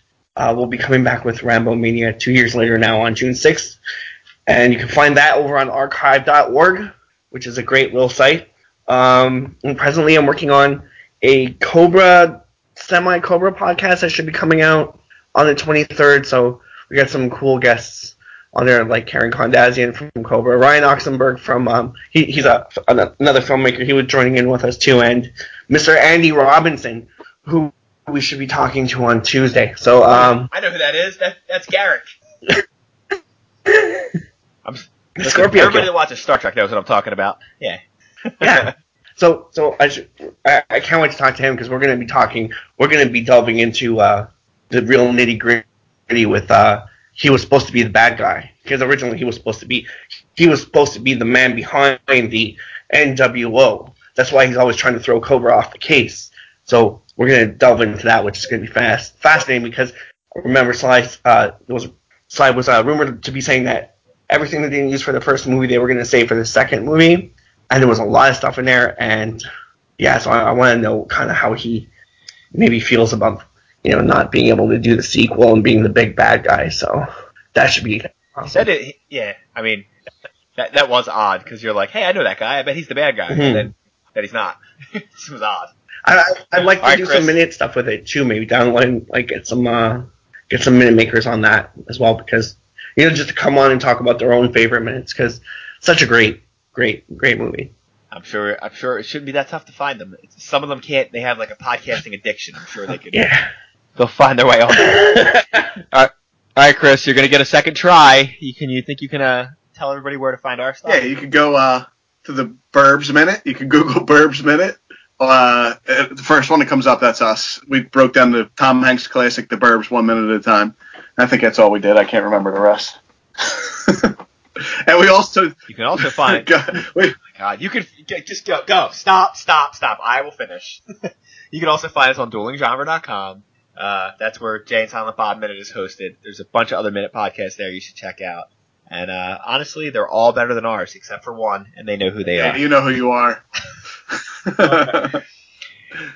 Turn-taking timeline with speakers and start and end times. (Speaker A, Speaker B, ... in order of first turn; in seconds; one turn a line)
Speaker A: 0.4-3.8
Speaker A: 4.5-30.5
Speaker B: 30.1-32.0
Speaker A: 33.7-34.1
Speaker B: 34.6-37.8
Speaker A: 35.2-35.9
Speaker B: 38.4-38.7
Speaker A: 38.4-69.4
Speaker A: 70.0-71.9
Speaker A: 72.5-78.7
Speaker B: 78.5-79.9
Speaker B: 80.5-85.7
Speaker A: 83.3-83.7
Speaker A: 86.0-97.7
Speaker B: 86.8-87.4
Speaker B: 98.1-103.2
Speaker A: 103.1-103.5
Speaker B: 104.0-105.3
Speaker A: 104.8-105.6
Speaker B: 105.9-111.0
Speaker C: 110.8-124.1
Speaker C: 124.9-127.2
Speaker B: 125.7-126.5
Speaker B: 127.3-130.8
Speaker B: 131.5-142.6
Speaker C: 142.3-143.4
Speaker C: 144.1-145.2
Speaker B: 144.6-145.0